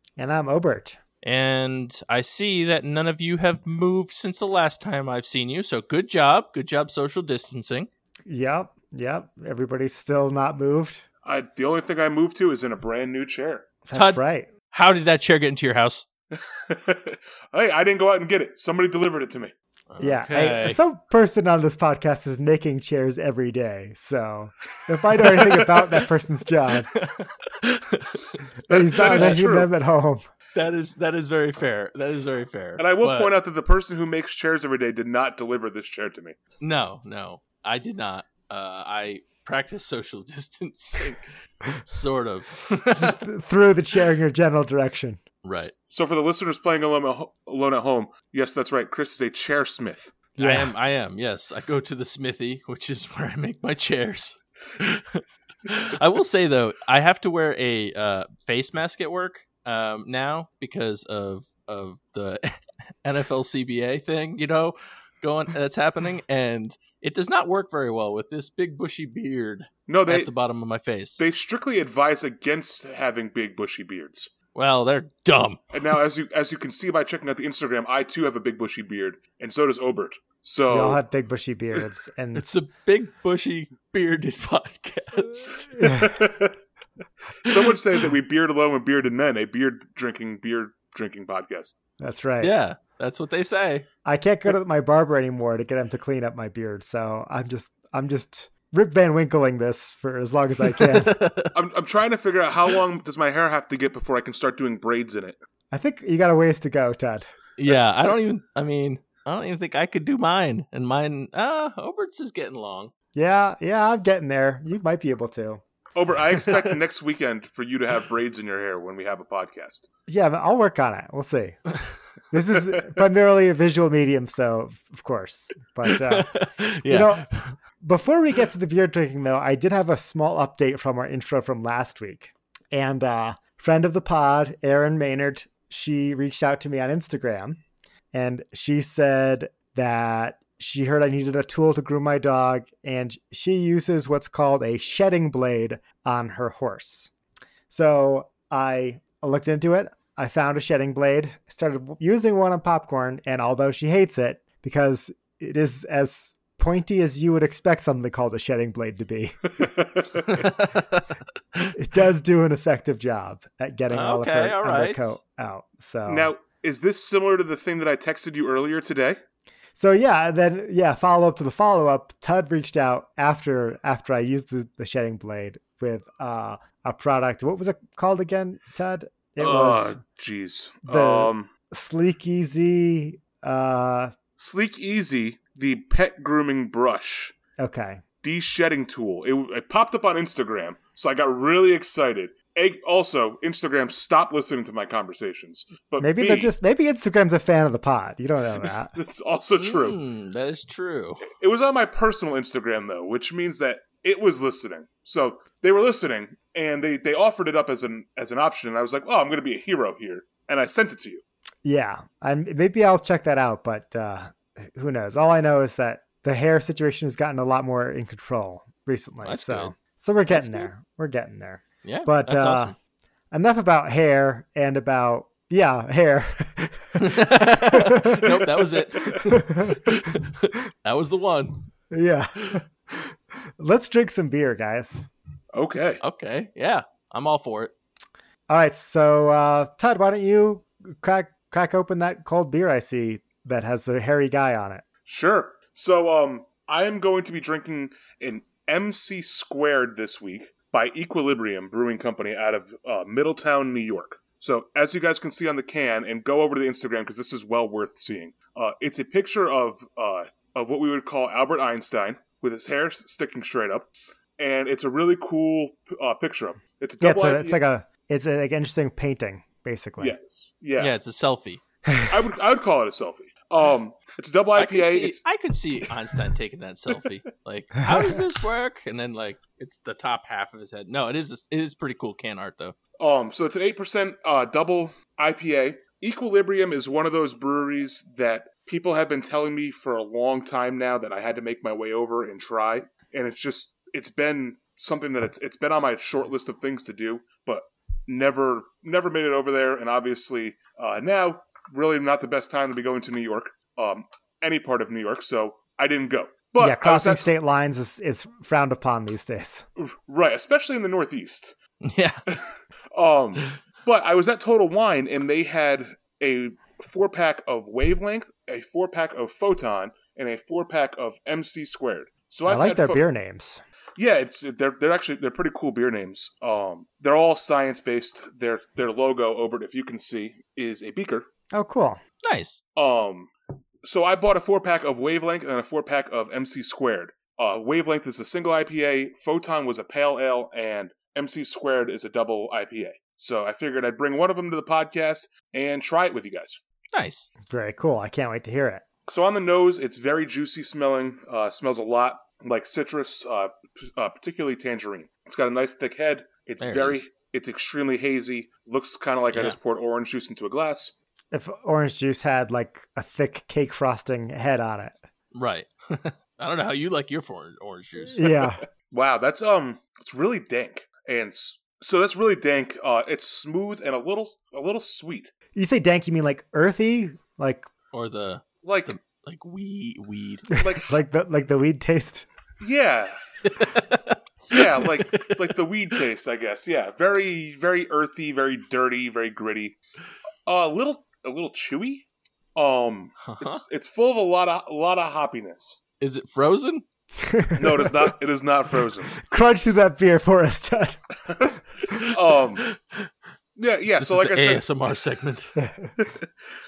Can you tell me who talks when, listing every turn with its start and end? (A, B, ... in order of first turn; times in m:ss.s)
0:00.2-0:01.0 A
0:01.2-0:07.9 B
0:08.3-0:11.0 A
0:11.2-0:13.7 C
0:13.8-0:14.5 A
0:13.9-0:16.0 B
0:16.3-0:19.5 C
0:19.9-0:20.8 B
0:20.0-0:26.9 A
0:25.3-0:25.7 B
0:26.9-0:28.4 B
0:28.7-0:29.7 C
0:28.7-0:30.3 A
0:29.0-0:29.4 B
0:30.5-0:33.3 B
0:32.8-0:36.4 C
0:36.6-0:41.2 B
0:41.8-0:43.2 B
0:42.9-0:45.2 A
0:45.4-0:45.7 B
0:45.7-0:50.2 C
0:50.4-0:50.7 A
0:50.4-1:02.5 B
1:03.0-1:11.2 B
1:09.9-1:10.3 C
1:11.2-1:14.3 C
1:14.5-1:15.7 B
1:15.7-1:21.0 C
1:20.7-1:22.4 A
1:22.3-1:26.2 B
1:25.8-1:26.2 A
1:26.0-1:26.5 C
1:27.4-1:31.8 C
1:32.0-1:32.5 A
1:32.4-1:33.9 B
1:34.0-1:41.2 A
1:40.7-1:41.5 B
1:41.5-1:45.4 C
1:45.7-1:47.2 A
1:47.6-1:52.9 B
1:53.2-1:55.6 A
1:56.0-1:59.8 C
2:00.1-2:01.6 A
2:02.3-2:06.3 A
2:05.8-2:07.6 B
2:06.9-2:07.3 A
2:07.8-2:17.6 A
2:18.1-2:27.1 A
2:27.7-2:39.7 A
2:39.6-2:40.3 C
2:40.2-2:41.8 B
2:41.8-2:46.3 A
2:43.9-2:45.2 B
2:46.1-2:49.2 C
2:49.8-3:00.0 A
2:59.4-3:01.5 C
3:00.8-3:04.2 A
3:04.4-3:07.3 C
3:07.6-3:08.0 A
3:08.2-3:16.5 C
3:16.0-3:18.9 A
3:18.9-3:20.0 C
3:19.6-3:21.3 B
3:21.2-3:31.2 C
3:31.6-3:42.8 A
3:39.2-3:39.7 B
3:40.3-3:40.7 B
3:41.8-3:42.8 B
3:43.3-3:50.2 A
3:47.0-3:51.6 B
3:51.9-3:55.1 A
3:55.5-3:56.0 C
3:56.0-3:57.7 B
3:58.5-4:04.8 A
4:05.1-4:27.6 C
4:27.0-4:30.2 A
4:30.0-4:30.9 C
4:30.8-4:31.6 B
4:31.9-4:32.3 A
4:32.1-4:35.2 C
4:34.6-4:42.8 B
4:37.9-4:38.2 A
4:43.0-5:07.3 C
5:06.6-5:09.6 A
5:09.8-5:11.6 C
5:11.8-5:12.2 B
5:12.3-5:23.0 C
5:22.4-5:23.6 A
5:24.0-5:31.3 C
5:31.5-5:32.0 A
5:32.2-5:32.6 B
5:32.8-5:33.3 C
5:33.8-5:46.6 C
5:46.9-5:47.3 B
5:47.5-5:48.8 A
5:49.1-6:00.9 C
5:56.6-5:57.1 B
5:59.3-5:59.6 B
6:01.3-6:05.0 A
6:05.3-6:08.3 B
6:08.1-6:08.6 A
6:08.9-6:15.3 C
6:15.6-6:17.7 A
6:17.9-6:20.5 B
6:18.6-6:18.9 C
6:20.6-6:21.0 C
6:20.6-6:22.2 A
6:22.6-6:23.1 C
6:23.4-6:25.5 B
6:24.5-6:29.8 C
6:30.4-6:35.8 C
6:33.2-6:33.6 B
6:36.0-6:36.8 B
6:37.2-6:38.1 A
6:37.6-6:39.1 C
6:39.2-6:41.0 A
6:41.3-6:42.6 C
6:42.6-6:43.1 B
6:43.6-6:44.6 C
6:44.0-6:45.6 B
6:45.6-6:45.9 A
6:46.0-6:46.2 C